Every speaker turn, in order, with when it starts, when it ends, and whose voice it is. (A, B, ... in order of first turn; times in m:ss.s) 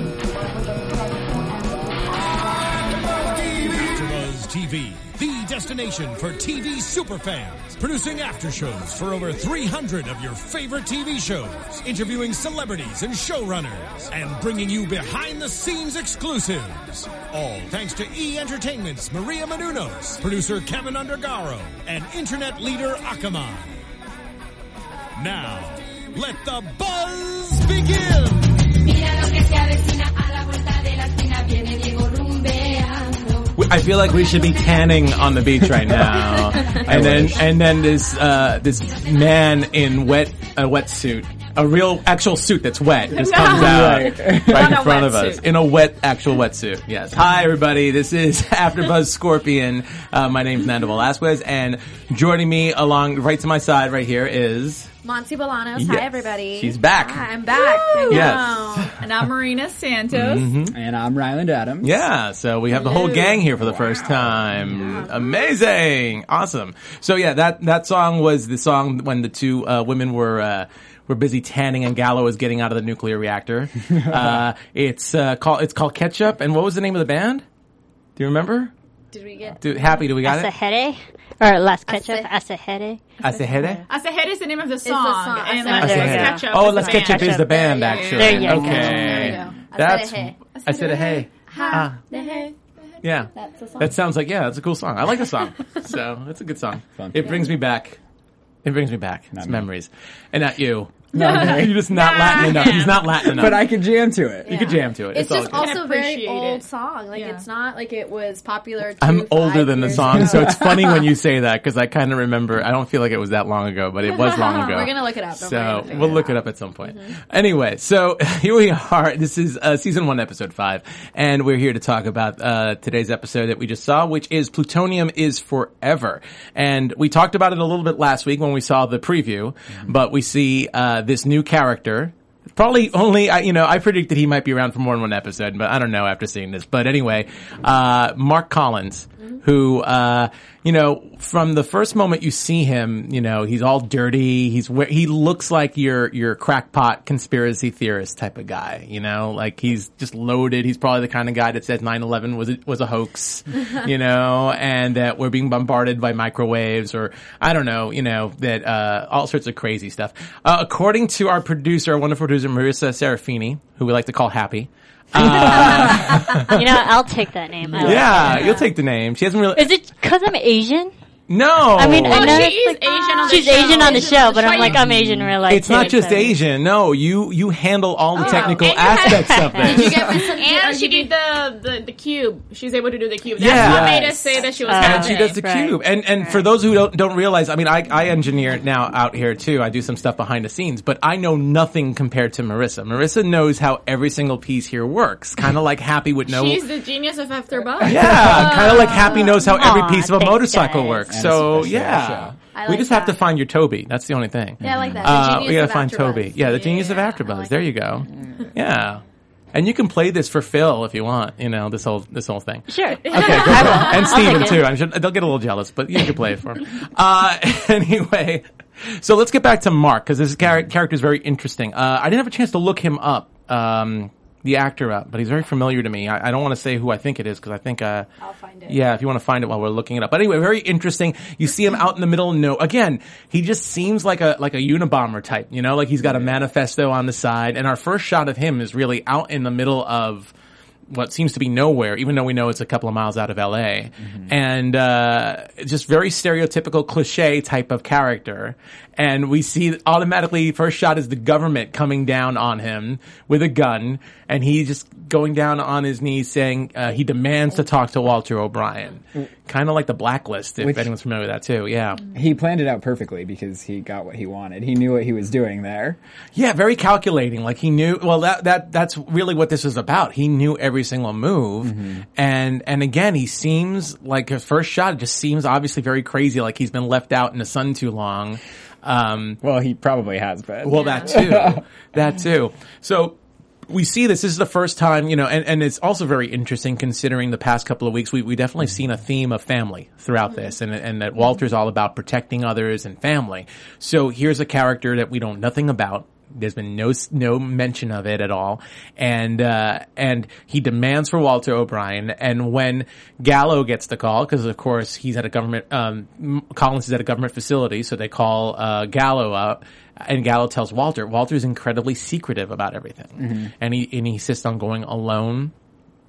0:02.2-0:23.8 A
0:25.2-0:28.7 A
0:29.1-0:29.9 B
0:31.3-0:33.0 B
0:33.6-0:54.9 C
0:36.7-0:37.5 D
0:43.1-0:45.5 E
0:43.4-0:44.8 D
0:55.0-0:58.9 F
0:55.8-0:57.2 C
0:57.5-1:00.5 E
0:58.1-0:58.9 C
1:00.1-1:00.7 C
1:00.7-1:02.0 D
1:01.8-1:17.4 C
1:03.5-1:04.8 D
1:04.8-1:05.1 F
1:18.2-1:18.7 C
1:19.1-1:20.1 F
1:19.6-1:20.5 C
1:20.2-1:23.7 B
1:21.9-1:22.3 F
1:23.2-1:23.8 C
1:23.8-1:29.5 E
1:24.8-1:30.4 F
1:25.6-1:29.3 B
1:25.8-1:32.0 C
1:28.5-1:29.4 D
1:30.5-1:33.0 E
1:31.5-1:32.5 F
1:33.0-1:38.0 C
1:33.4-1:33.9 F
1:37.0-1:37.5 D
1:38.6-1:43.6 C
1:39.3-1:39.6 D
1:41.1-1:41.8 D
1:41.9-1:43.2 E
1:42.0-1:42.9 F
1:43.2-1:44.6 D
1:44.4-1:51.0 F
1:44.5-1:45.7 C
1:45.5-1:47.4 E
1:49.0-2:46.7 C
1:49.9-1:50.7 D
1:54.1-1:57.1 F
1:54.3-1:54.6 E
2:45.2-2:46.1 D
2:45.2-2:48.6 B
2:47.6-2:48.0 D
2:47.7-2:49.8 C
2:47.8-2:48.6 E
2:49.5-2:50.9 B
2:51.3-2:52.5 C
2:51.7-2:56.4 B
2:52.0-2:54.8 E
2:53.2-2:54.7 F
2:54.9-2:55.3 D
2:55.5-3:00.1 C
2:58.2-3:01.1 F
2:58.2-2:58.7 E
2:58.7-2:59.9 B
2:59.7-3:05.4 E
3:03.4-3:04.1 C
3:03.5-3:04.3 D
3:04.4-3:04.9 F
3:04.6-3:06.5 B
3:04.8-3:16.6 C
3:16.3-3:19.2 E
3:17.8-3:18.6 D
3:17.8-3:29.0 C
3:18.3-3:19.5 F
3:18.9-3:21.1 B
3:21.1-3:22.3 D
3:22.5-3:23.2 F
3:24.6-3:27.7 F
3:24.6-3:25.1 D
3:29.5-3:48.1 C
3:32.7-3:34.7 B
3:33.0-3:34.5 E
3:48.2-3:48.8 F
3:48.7-4:00.3 C
3:56.0-3:56.4 D
4:00.9-4:22.0 C
4:20.6-4:20.9 D
4:22.1-4:26.0 D
4:26.3-4:39.4 C
4:31.6-4:32.0 D
4:39.4-4:41.6 D
4:40.6-4:43.2 C
4:40.7-4:41.2 E
4:43.7-5:15.5 C
5:13.2-5:13.5 D